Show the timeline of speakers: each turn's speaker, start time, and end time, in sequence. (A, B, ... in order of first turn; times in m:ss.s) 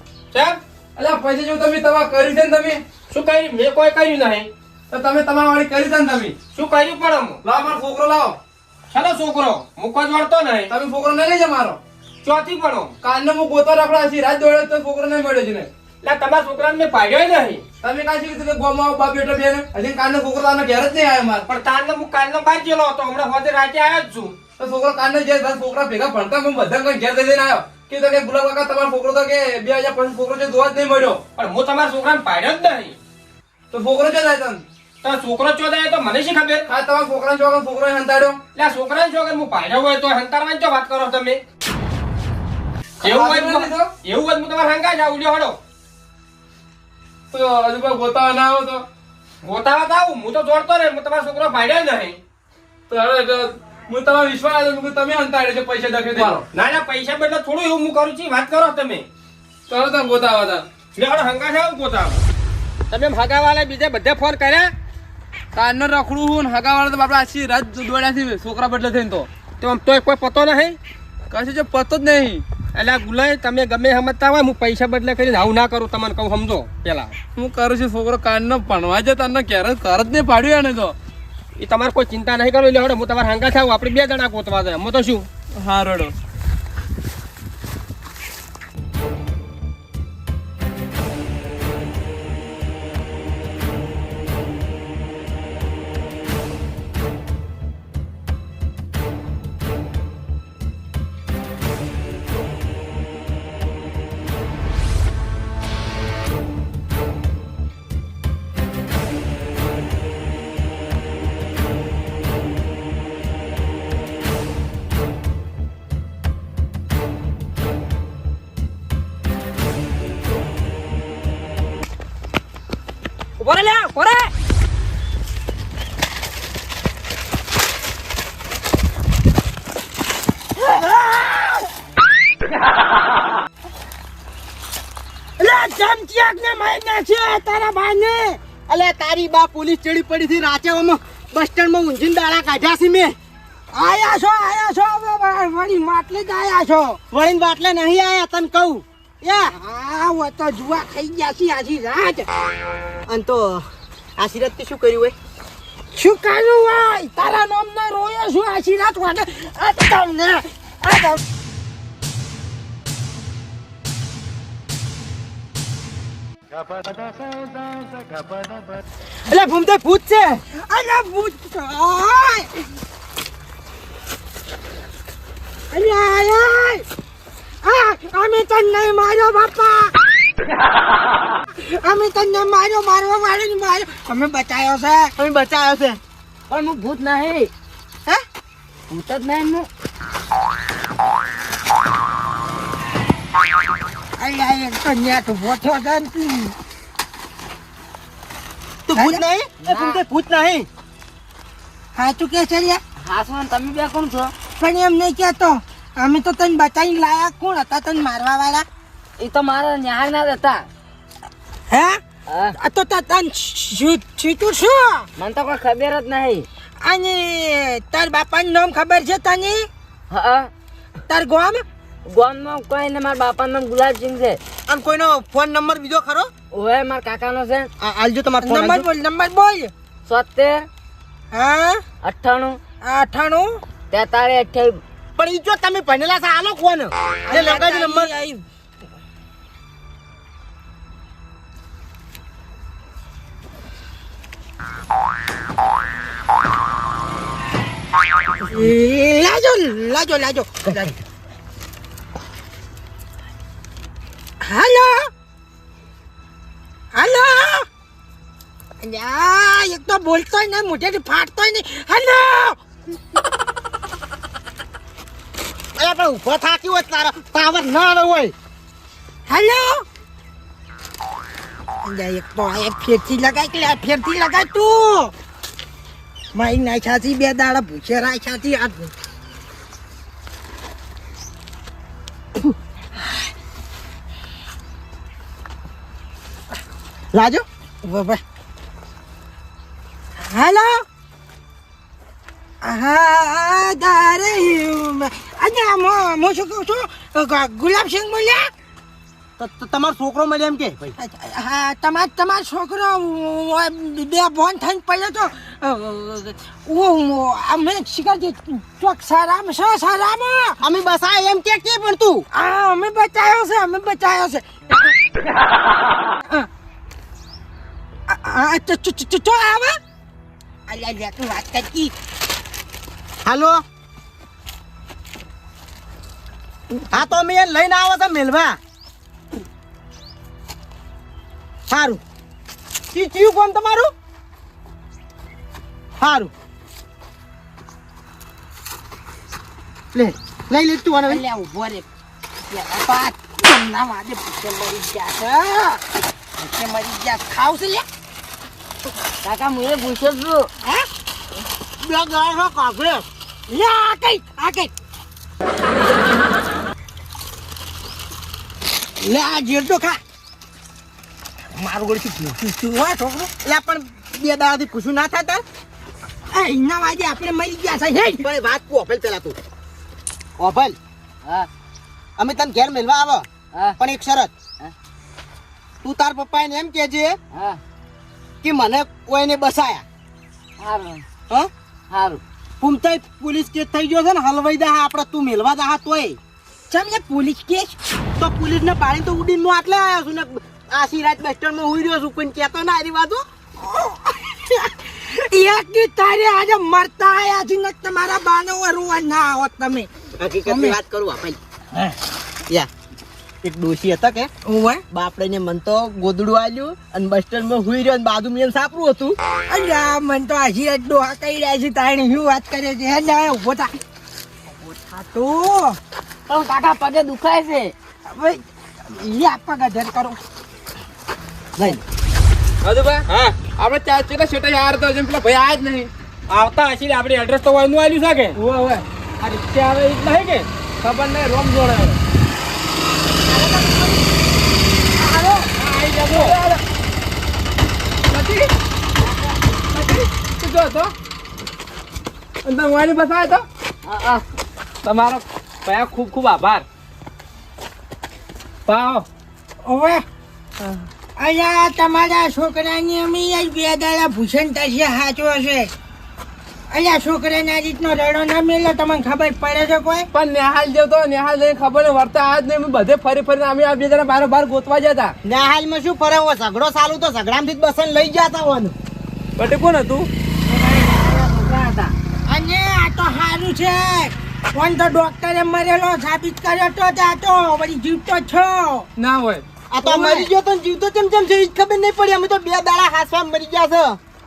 0:00.3-0:00.6 A
0:01.0-0:02.8 B
0:03.1-0:04.5 A
0:04.9-0:06.4 B
0:06.5-0:07.4 A
0:07.4-0:08.4 B
0:08.9-0:10.7 A
0:10.7-0:11.8 B
0:12.2-0:12.9 A
0:13.0-0:15.7 B
0:16.0-0:17.6 A
0:17.8-0:21.5 B
0:21.5-0:24.4 A
0:24.6-0:31.2 B
0:31.4-0:33.0 A
0:33.7-0:34.6 B
0:35.0-0:36.7 A
0:36.7-0:38.4 B
0:38.5-0:41.4 A
0:43.0-0:43.9 B
0:43.0-0:45.6 A
0:47.3-0:48.8 B
0:49.4-0:52.2 A
0:52.9-0:56.4 B
0:56.2-0:59.0 A
0:59.7-1:00.6 B
1:01.0-1:02.2 A
1:02.9-1:04.7 A
1:05.5-1:09.3 B
1:09.6-1:10.8 A
1:11.3-1:12.4 B
1:12.7-1:17.1 A
1:17.4-1:20.9 B
1:21.6-1:25.2 A
1:25.6-1:26.1 B
2:03.4-2:04.3 B
2:10.6-2:11.7 C
2:15.4-2:18.4 C
2:18.7-2:23.1 D
2:23.7-2:27.0 C
2:27.1-2:29.5 D
2:29.5-2:32.3 C
2:33.1-2:35.1 D
2:35.9-2:41.2 C
2:49.3-2:50.4 D
2:50.7-2:52.5 C
2:55.7-2:56.8 C
2:57.6-2:59.9 C
3:01.6-3:05.1 C
3:05.2-3:06.0 D
3:06.5-3:07.5 E
3:08.9-3:09.7 E
3:14.2-3:16.5 C
3:18.9-3:20.6 D
3:19.0-3:19.2 C
3:19.6-3:20.0 E
3:22.0-3:22.8 C
3:23.0-3:24.3 E
3:24.6-3:28.6 C
3:29.2-3:30.6 E
3:31.7-3:32.0 C
3:32.3-3:32.5 E
3:32.6-3:35.1 C
3:35.2-3:36.4 E
3:36.8-3:39.7 C
3:40.1-3:40.5 E
3:41.1-3:41.6 C
3:42.1-3:44.4 E
3:44.7-3:46.3 D
3:46.5-3:47.7 E
3:47.8-3:48.8 D
3:48.4-3:49.7 C
3:50.1-3:50.7 E
3:51.3-3:51.8 C
3:52.0-3:52.6 E
3:52.8-3:53.6 C
3:53.9-3:54.8 E
3:55.2-3:58.1 D
3:57.3-3:58.4 C
3:57.3-3:57.8 E
4:08.4-4:11.0 C
4:14.4-4:15.1 C
4:16.9-4:17.7 C
4:18.8-4:22.6 C
4:25.8-4:28.3 D
4:29.3-4:29.8 C
4:31.8-4:35.1 C
4:36.3-4:38.9 C
4:43.0-4:43.3 C
4:47.1-4:47.4 D
4:47.8-4:48.2 C
4:50.2-4:50.8 C
4:52.6-4:58.5 C
4:59.4-5:00.9 D
5:01.0-5:10.6 C
5:10.6-5:12.2 D
5:12.3-5:15.0 C
5:18.1-5:19.8 C
5:20.7-5:21.9 C
5:23.2-5:23.6 D
5:26.9-5:28.6 D
5:31.7-5:32.0 D
5:32.9-5:33.9 D
5:36.0-5:36.3 D
5:39.9-5:41.2 D
5:41.1-5:41.8 C
5:42.5-5:45.8 C
5:46.4-5:47.8 C
5:49.2-5:50.5 E
5:51.8-5:53.0 D
5:53.5-5:54.7 C
5:59.0-6:00.0 C
6:01.6-6:03.3 C
6:03.4-6:05.4 D
6:06.3-6:08.2 C
6:08.2-6:09.4 D
6:10.4-6:10.8 D
6:12.2-6:13.3 D
6:13.8-6:14.3 D
6:15.8-6:17.2 D
6:17.3-6:17.6 E
6:18.4-6:19.8 D
6:20.6-6:21.0 E
6:21.9-6:22.2 E
6:22.6-6:26.2 D
6:26.7-6:27.7 C
6:28.2-6:33.2 D
6:33.6-6:39.9 C
6:40.2-6:41.4 D
6:40.5-6:40.7 C
6:43.4-6:44.3 D
6:44.4-6:44.8 C
6:44.9-6:49.2 D
6:49.5-6:53.7 C
6:54.5-6:55.8 C
6:56.3-6:57.7 E
6:58.1-7:00.2 C
7:02.6-7:05.9 B
7:03.1-7:03.3 A
7:06.3-7:08.4 A
7:08.4-7:08.8 B
7:09.2-7:10.5 A
7:10.8-7:12.0 B
7:13.3-7:14.0 C
7:15.0-7:15.5 C
7:15.6-7:16.6 B
7:15.6-7:16.4 A
7:18.1-7:18.5 B
7:19.7-7:20.9 B
7:22.4-7:23.4 B
7:23.8-7:24.2 E
7:24.8-7:26.6 B
7:28.7-7:29.0 B
7:29.6-7:30.0 C
7:31.2-7:35.7 C
7:36.7-7:40.1 C
7:40.1-7:45.1 B
7:45.2-7:48.7 D
7:49.4-7:50.1 B
7:50.4-7:51.9 E
7:52.3-7:58.9 C
7:59.0-7:59.4 B
7:59.7-8:04.0 D
7:59.8-8:00.1 C